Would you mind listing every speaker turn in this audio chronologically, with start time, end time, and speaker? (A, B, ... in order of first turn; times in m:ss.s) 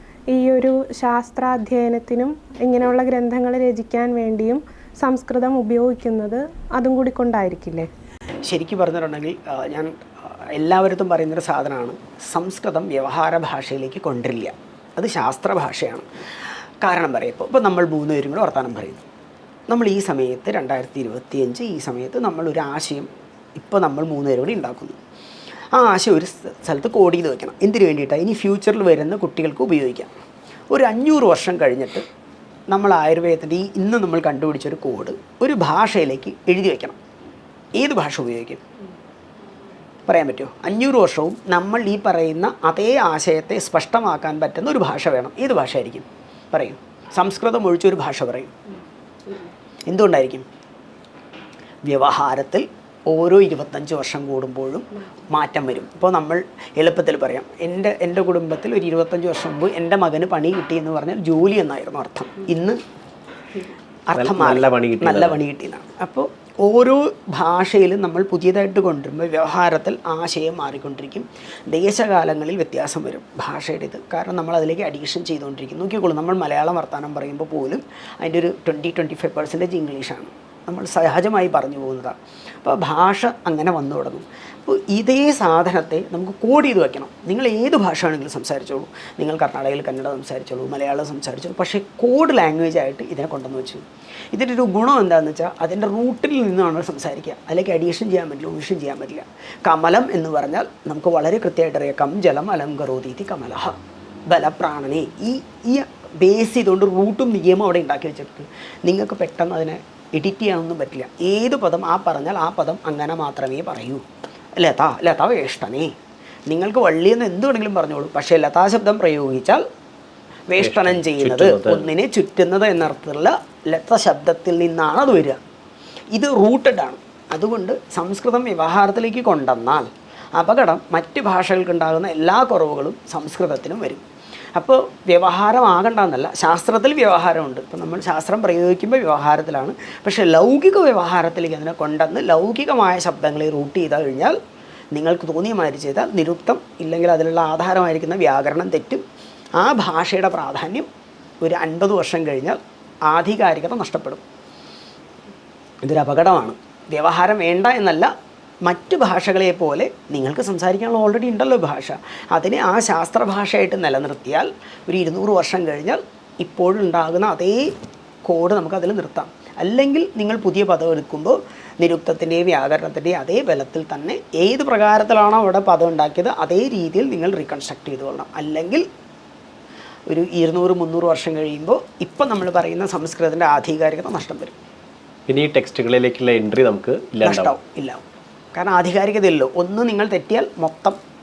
0:00.3-0:07.9 A
0:08.4-0:16.0 B
0:16.8-0:19.0 B
0:19.7-0:25.0 B
0:25.7-0:30.1 B
0:30.7-0:32.0 B
0:32.7-0:37.0 B
0:37.8-0:38.6 B
0:40.1-0:48.5 B
0:49.9-0:50.4 B
0:51.8-1:02.8 B
1:04.1-1:43.8 B
1:04.1-1:05.4 C
1:44.3-1:54.0 B
1:54.6-1:55.9 B
1:56.5-1:59.6 B
2:00.5-2:05.4 B
2:00.6-2:01.9 C
2:06.1-2:14.0 B
2:14.5-2:24.4 B
2:24.9-2:29.0 B
2:29.6-2:30.9 B
2:31.4-2:34.2 B
2:35.8-2:38.1 B
2:38.6-2:47.7 B
2:48.2-2:58.8 B
3:00.1-3:04.6 B
3:05.3-3:07.5 C
3:07.2-3:08.0 B
3:08.5-3:11.0 B